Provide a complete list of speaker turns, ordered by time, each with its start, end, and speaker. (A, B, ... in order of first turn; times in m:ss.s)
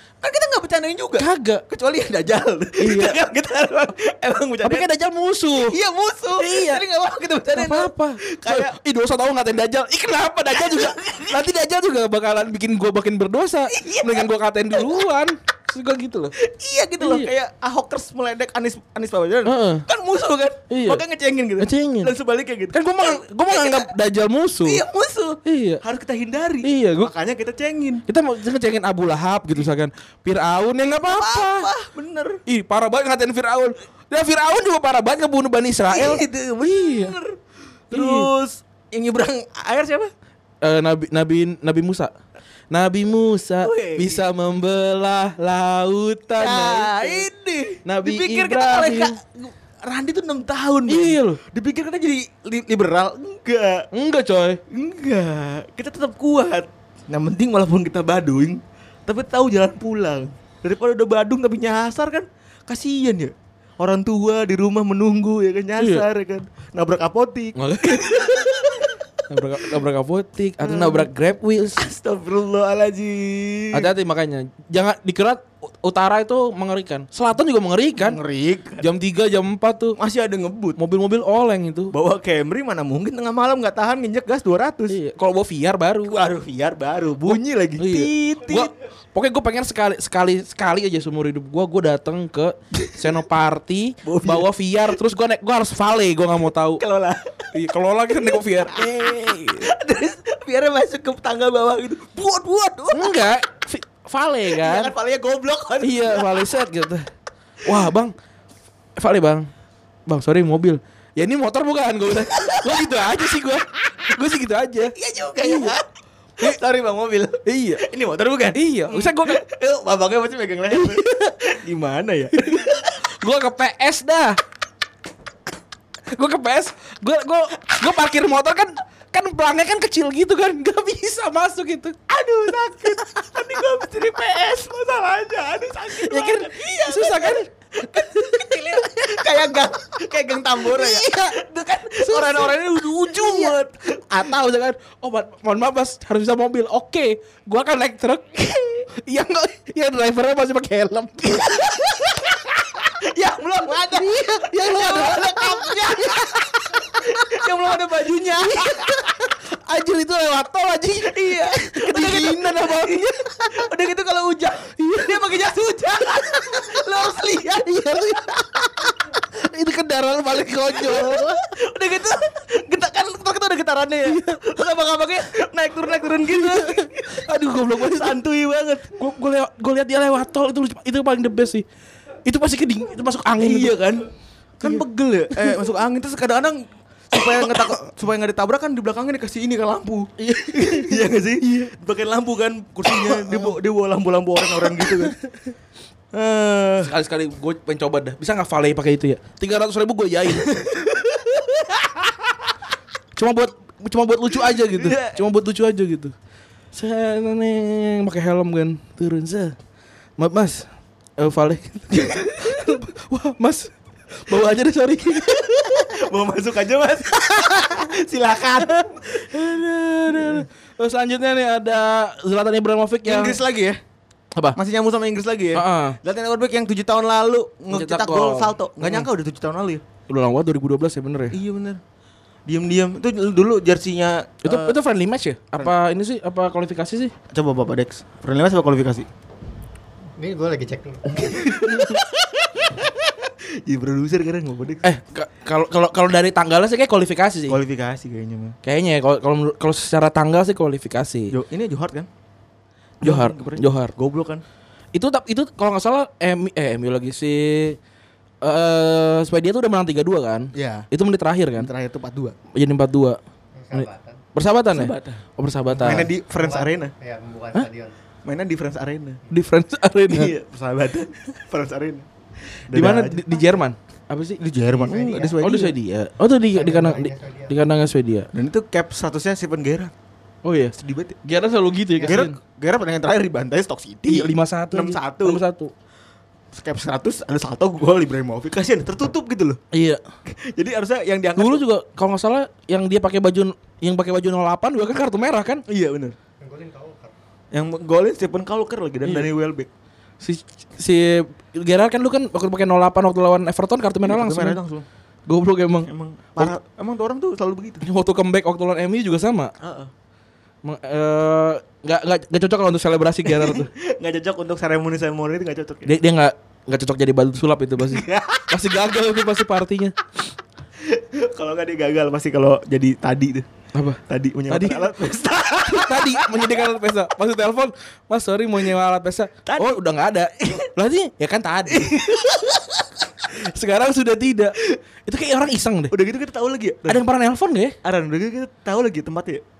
0:00.2-0:04.9 A
0:01.2-0:01.6 B
0:02.8-0:03.2 B
0:04.6-0:05.7 B
0:05.6-0:08.8 A
0:06.4-0:06.8 B
0:07.5-0:16.3 B
0:10.5-0:11.4 A
0:13.7-0:15.0 A
0:16.4-0:23.9 A
0:17.0-0:17.3 B
0:19.4-0:19.8 B
0:20.7-0:21.0 B
0:21.6-0:22.1 B
0:22.7-0:24.8 B
0:24.6-0:28.0 A
0:25.4-0:25.8 B
0:26.6-0:27.1 B
0:28.1-0:31.7 B
0:31.0-0:32.4 A
0:32.4-0:37.2 B
0:35.9-0:37.4 A
0:37.9-0:40.1 A
0:37.9-0:38.3 B
0:40.6-0:42.1 B
0:42.7-0:47.3 B
0:43.6-0:44.2 A
0:46.3-0:53.9 A
0:47.8-0:49.1 B
0:50.9-0:51.4 B
0:53.9-0:54.6 B
0:54.7-1:09.1 A
1:05.8-1:06.0 B
1:07.6-1:11.8 B
1:10.6-1:11.1 A
1:11.7-1:13.9 A
1:13.7-1:18.2 B
1:18.0-1:18.9 A
1:18.8-1:20.0 B
1:20.0-1:20.8 A
1:20.8-1:21.9 B
1:21.9-1:25.0 A
1:24.9-1:26.2 B
1:26.0-1:28.7 A
1:27.2-1:36.8 B
1:34.0-1:34.5 A
1:36.8-1:37.5 A
1:37.5-1:39.7 B
1:38.4-1:43.2 A
1:42.9-1:44.9 B
1:44.5-1:46.5 A
1:45.8-1:47.1 B
1:47.6-1:48.1 B
1:49.0-1:49.5 B
1:50.1-1:55.8 B
1:52.2-1:52.9 A
1:54.9-1:55.8 A
1:56.4-2:02.9 A
1:57.4-1:57.8 B
1:58.5-1:59.4 B
2:00.7-2:01.3 B
2:02.4-2:04.4 B
2:06.1-2:12.0 B
2:12.1-2:24.4 A
2:12.6-2:13.0 B
2:15.9-2:19.6 B
2:20.5-2:23.6 B
2:24.1-2:32.8 B
2:32.9-2:39.1 A
2:33.7-2:37.5 B
2:38.4-2:43.7 B
2:41.0-2:48.9 A
2:44.6-2:45.4 B
2:46.0-2:51.5 B
2:50.7-2:57.2 A
2:54.0-2:54.6 B
2:55.9-2:58.2 B
2:57.8-2:59.0 A
2:58.9-3:01.6 B
3:02.2-3:03.8 B
3:03.4-3:04.1 A
3:04.6-3:15.2 A
3:04.6-3:05.7 B
3:07.1-3:07.7 B
3:10.2-3:11.7 B
3:12.8-3:13.6 B
3:14.5-3:15.3 B
3:16.1-3:16.9 A
3:16.8-3:20.6 B
3:20.4-3:21.9 A
3:23.2-3:26.1 B
3:24.4-3:25.2 A
3:26.7-3:29.6 B
3:30.2-3:30.7 B
3:31.2-3:36.0 B
3:32.2-3:32.6 A
3:35.2-3:40.4 A
3:37.2-3:37.8 B
3:38.6-3:43.4 B
3:43.0-3:43.8 A
3:44.5-3:49.8 A
3:45.5-3:46.0 B
3:47.7-3:49.1 B
3:50.1-3:51.4 B
3:51.3-3:51.8 A
3:52.5-3:54.8 A
3:54.4-3:57.1 B
3:57.3-3:59.1 A
4:00.2-4:01.6 C
4:01.2-4:04.9 A
4:04.8-4:07.6 B
4:07.5-4:08.6 A
4:08.6-4:11.3 B
4:11.3-4:12.1 A
4:13.0-4:13.9 B
4:13.0-4:14.4 A
4:14.9-4:17.8 B
4:18.4-4:21.7 B
4:20.5-4:20.9 A
4:21.6-4:22.4 A
4:22.5-4:23.2 B
4:23.5-4:24.2 C
4:23.7-4:26.1 B
4:24.7-4:25.2 A
4:25.7-4:26.9 A
4:26.4-4:27.9 C
4:28.2-4:29.2 A
4:29.3-4:30.3 B
4:30.1-4:32.0 A
4:32.7-4:33.3 A
4:32.7-4:38.3 B
4:34.4-4:35.8 A
4:36.5-4:37.6 C
4:38.3-4:39.9 A
4:40.4-4:42.4 B
4:40.8-4:41.2 A
4:42.0-4:45.4 A
4:44.1-4:45.7 B
4:46.5-4:49.6 A
4:49.7-4:50.0 B
4:50.3-4:51.6 A
4:51.4-4:55.6 B
4:55.7-4:56.1 A
4:56.4-4:57.1 C
4:57.5-4:59.7 A
4:59.0-4:59.3 B
5:00.2-5:04.6 B
5:04.0-5:04.8 A
5:05.3-5:06.5 B
5:05.8-5:07.8 A
5:07.8-5:09.5 B
5:09.6-5:09.9 A
5:10.6-5:13.7 B
5:13.2-5:15.9 A
5:15.8-5:19.9 B
5:17.8-5:18.5 A
5:20.8-5:23.4 A
5:23.7-5:25.0 B
5:24.0-5:26.6 A
5:25.5-5:32.1 B
5:29.4-5:29.8 A
5:30.4-5:30.7 A
5:31.7-5:33.2 A
5:33.2-5:34.5 B
5:35.1-5:35.9 B
5:35.9-5:37.0 A
5:36.8-5:37.7 B
5:37.8-5:39.4 A